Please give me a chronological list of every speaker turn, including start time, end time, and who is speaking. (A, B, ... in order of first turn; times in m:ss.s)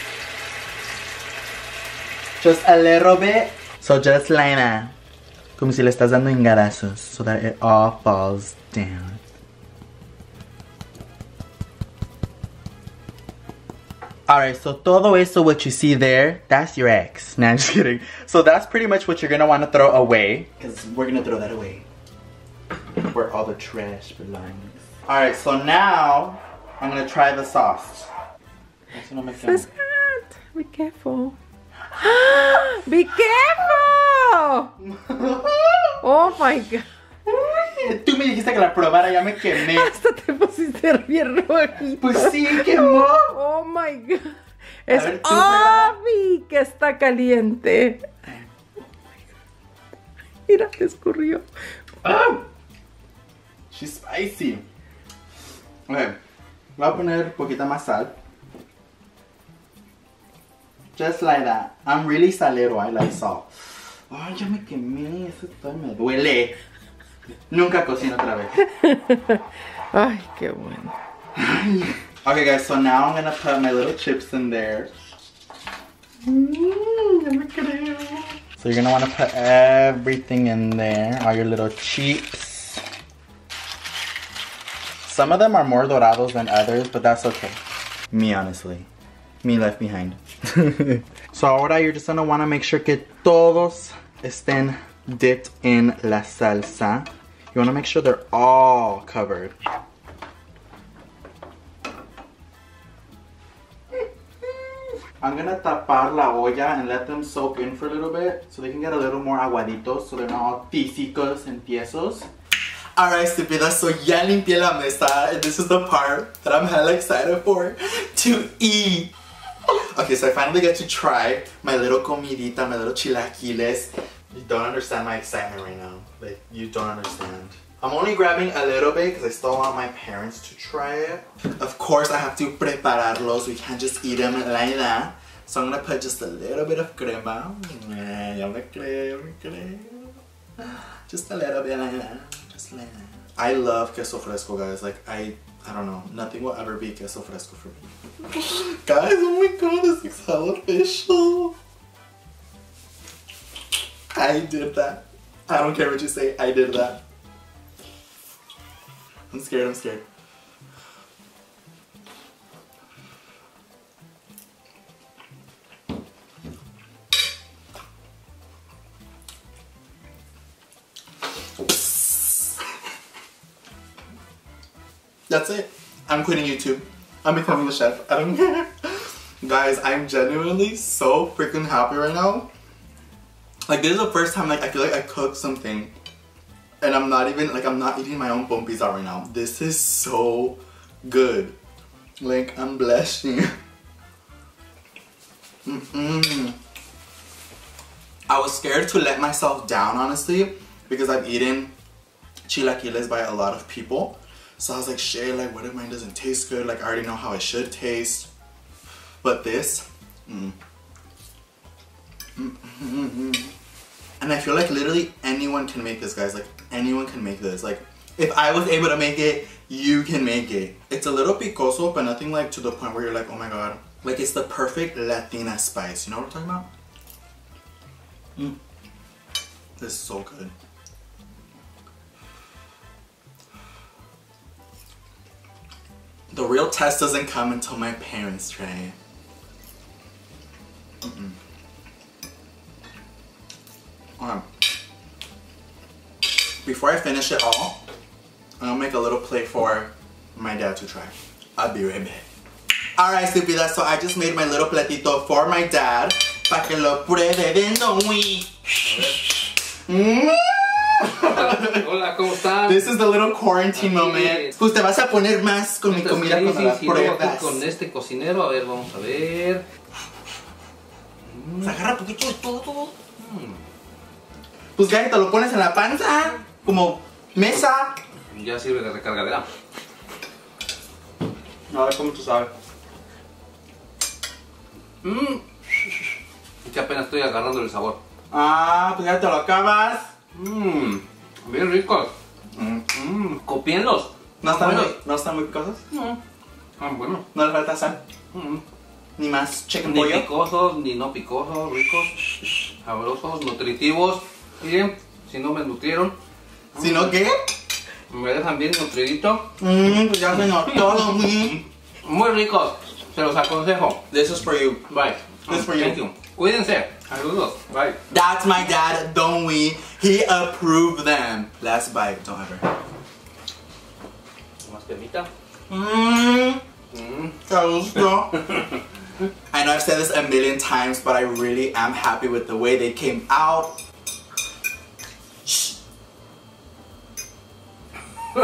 0:02.4-0:04.9 A
0:05.6-0:09.2 A
0:14.3-0:21.8 A
0:23.0-0:28.1 A
0:28.9-0:29.7 A
0:29.4-0:31.4 B
0:31.9-0:34.7 B
0:34.8-0:36.0 A
0:36.0-0:36.9 B
0:37.3-0:39.9 A
0:39.4-0:48.3 B
0:42.0-0:43.4 A
0:44.9-0:45.9 A
0:50.5-0:51.4 B
0:52.0-0:52.4 B
0:53.7-0:54.6 A
0:55.9-0:56.2 A
0:56.8-0:58.1 A
1:01.0-1:03.5 A
1:04.1-1:06.5 A
1:07.5-1:08.6 A
1:08.6-1:10.9 B
1:11.4-1:14.9 A
1:16.2-1:22.8 A
1:25.0-1:27.6 A
1:28.1-1:28.9 A
1:29.4-1:39.5 A
1:44.4-1:52.3 A
1:53.0-1:59.1 A
1:59.8-2:31.6 A
2:34.1-2:37.0 A
2:39.3-2:40.0 A
2:51.6-2:52.4 A
2:55.3-3:02.5 A
3:03.7-3:05.9 A
3:06.8-3:11.5 A
3:12.2-3:13.5 A
3:15.6-3:16.6 A
3:18.3-3:21.7 A
3:22.5-3:28.3 A
3:29.2-3:30.6 A
3:32.4-3:33.5 A
3:34.2-3:46.7 A
3:49.8-3:50.5 A
3:56.3-3:59.0 A
4:01.0-4:01.4 A
4:04.2-4:04.5 A
4:06.6-4:07.8 A
4:08.6-4:12.2 A
4:13.0-4:27.6 A
4:18.8-4:19.4 C
4:21.2-4:22.9 C
4:23.8-4:24.5 C
4:25.9-4:29.6 C
4:31.3-4:31.8 C
4:31.6-4:32.9 A
4:33.2-4:33.6 C
4:34.8-4:38.0 A
4:38.3-4:39.5 C
4:41.7-4:42.5 A
4:45.0-4:48.0 C
4:48.3-4:50.1 A
4:50.4-4:52.1 C
4:52.6-4:53.0 A
4:52.9-4:55.0 C
4:54.4-4:55.8 A
4:55.9-4:56.2 C
4:56.8-4:57.3 C
4:57.3-4:58.0 A
4:58.3-4:58.6 C
4:59.2-5:00.3 A
4:59.8-5:06.2 C
5:06.8-5:07.2 C
5:06.8-5:07.6 A
5:08.1-5:09.5 C
5:09.6-5:11.6 A
5:12.0-5:14.0 C
5:14.1-5:14.8 A
5:14.9-5:18.0 C
5:15.5-5:16.0 A
5:18.1-5:22.7 A
5:24.6-5:25.3 C
5:25.7-5:26.6 A
5:26.9-5:27.3 C
5:27.4-5:28.8 A
5:29.5-5:33.8 A
5:35.5-5:35.7 A